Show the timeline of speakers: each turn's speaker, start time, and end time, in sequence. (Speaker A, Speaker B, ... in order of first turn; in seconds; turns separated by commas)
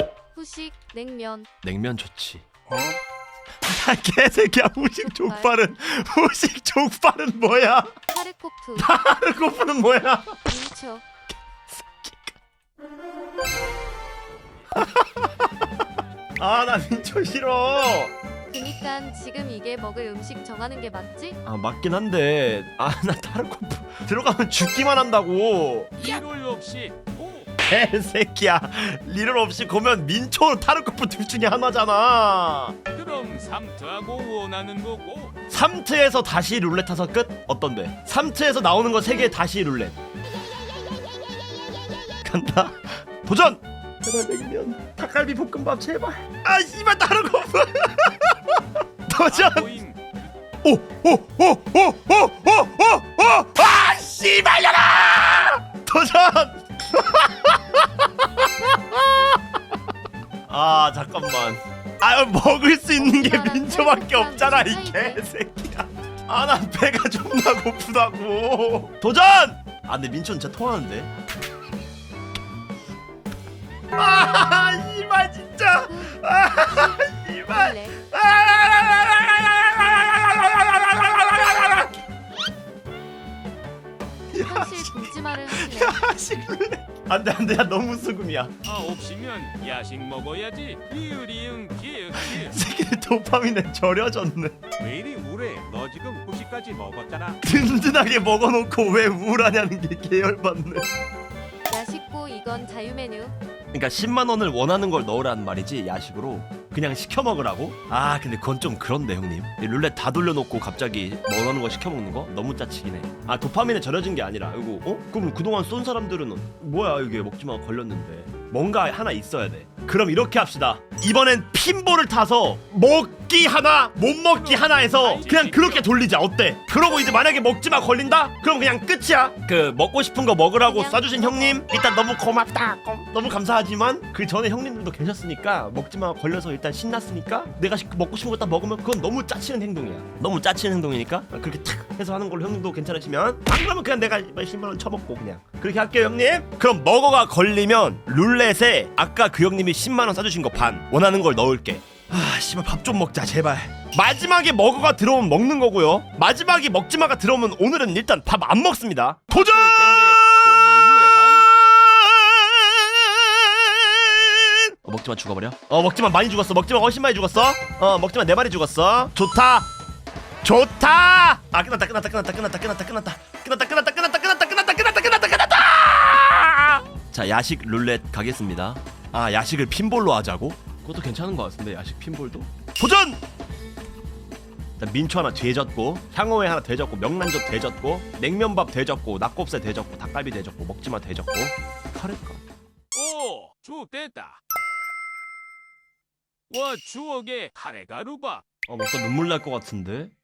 Speaker A: 0.3-1.5, Speaker B: 1.6-2.9, Speaker B: 3.6-7.9, Speaker A: 5.0-5.6, Speaker A: 8.1-8.9, Speaker B: 8.8-10.4, Speaker A: 10.5-11.1, Speaker B: 11.6-12.4, Speaker B: 14.8-15.5, Speaker B: 16.4-18.1, Speaker A: 18.5-21.4, Speaker B: 21.4-25.9, Speaker C: 26.0-27.5, Speaker B: 27.7-32.7, Speaker C: 32.9-35.3, Speaker B: 35.5-40.0, Speaker B: 42.2-49.7, Speaker C: 49.2-50.0, Speaker B: 50.6-59.6, Speaker B: 60.5-71.1, Speaker A: 63.0-65.2, Speaker B: 73.9-81.9, Speaker A: 75.8-78.0, Speaker B: 84.3-88.5, Speaker A: 84.4-86.0, Speaker C: 88.6-92.6, Speaker B: 92.2-94.6, Speaker D: 94.8-97.4, Speaker B: 97.4-100.9, Speaker A: 101.7-103.3, Speaker B: 103.7-160.2, Speaker C: 124.3-125.9, Speaker A: 130.6-131.6, Speaker C: 159.3-161.5, Speaker B: 161.5-169.7, Speaker B: 170.4-183.2, Speaker B: 184.8-192.4, Speaker C: 192.9-194.4, Speaker C: 196.5-198.4, Speaker B: 198.7-200.1